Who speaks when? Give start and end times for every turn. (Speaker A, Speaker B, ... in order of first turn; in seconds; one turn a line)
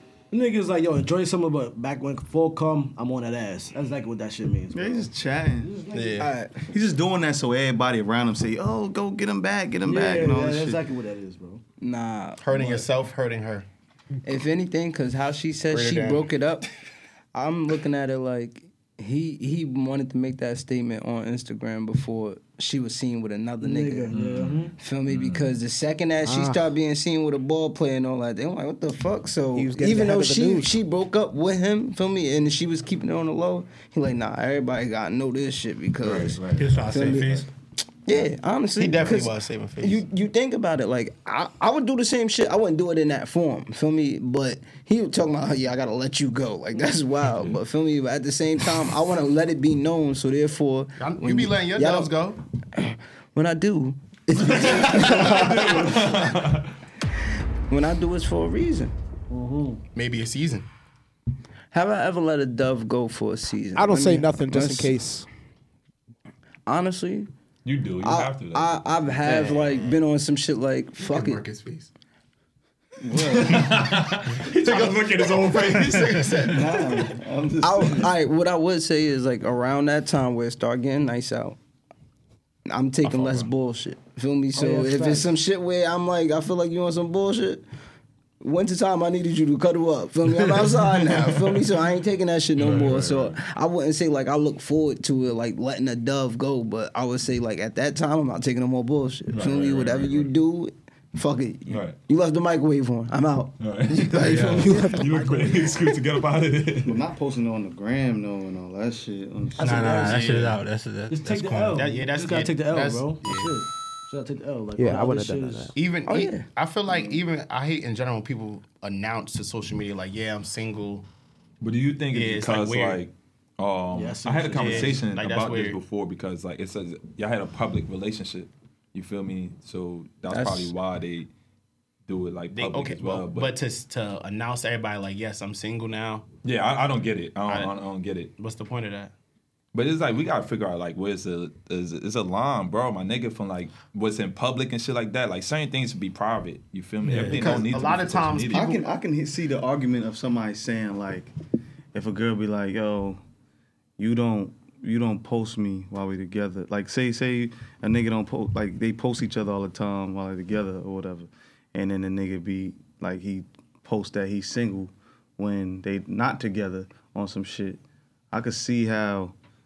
Speaker A: 0.3-6.3
Speaker B: 4.7-5.8
Speaker C: 5.9-6.3
Speaker D: 6.2-6.7
Speaker B: 6.6-10.8
Speaker A: 9.8-11.6
Speaker D: 11.8-12.8
Speaker C: 12.4-13.7
Speaker D: 14.2-16.7
Speaker C: 15.7-16.3
Speaker D: 17.3-24.1
Speaker A: 23.6-24.8
Speaker E: 24.1-25.6
Speaker D: 24.8-37.3
Speaker F: 26.2-26.6
Speaker F: 29.5-30.8
Speaker E: 36.0-37.4
Speaker G: 36.6-37.5
Speaker D: 38.0-52.1
Speaker C: 38.8-40.0
Speaker E: 47.3-47.6
Speaker C: 51.0-52.4
Speaker D: 52.7-56.3
Speaker E: 54.4-56.7
Speaker D: 57.7-58.9
Speaker A: 59.3-59.8
Speaker C: 59.9-60.7
Speaker D: 61.7-65.0
Speaker F: 63.8-65.3
Speaker D: 66.7-67.3
Speaker E: 67.6-68.8
Speaker D: 68.0-71.4
Speaker A: 69.2-69.6
Speaker C: 71.0-71.9
Speaker D: 73.1-73.6
Speaker B: 73.1-73.6
Speaker E: 73.2-76.6
Speaker C: 74.6-76.8
Speaker B: 76.4-78.1
Speaker D: 77.6-81.6
Speaker D: 82.7-87.6
Speaker E: 83.0-83.5
Speaker A: 84.5-85.3
Speaker D: 88.4-105.7
Speaker E: 92.6-93.4
Speaker E: 99.3-100.3
Speaker E: 101.7-102.0
Speaker E: 103.6-107.0
Speaker G: 104.2-104.6
Speaker F: 104.3-105.9
Speaker B: 106.8-110.2
Speaker A: 109.5-110.5
Speaker G: 109.6-112.0
Speaker C: 110.1-110.5
Speaker A: 111.1-115.7
Speaker C: 111.7-113.5
Speaker F: 114.8-115.7
Speaker C: 115.7-121.0
Speaker D: 116.0-116.5
Speaker E: 121.6-131.3
Speaker C: 122.1-123.0
Speaker A: 123.9-125.1
Speaker C: 124.5-125.8
Speaker D: 130.3-130.7
Speaker E: 132.1-133.5
Speaker C: 132.5-136.2
Speaker E: 136.4-138.3
Speaker C: 138.4-139.1
Speaker E: 139.7-148.7
Speaker B: 147.2-147.7
Speaker C: 147.2-148.8
Speaker B: 148.5-151.3
Speaker B: 151.9-153.2
Speaker B: 154.0-169.3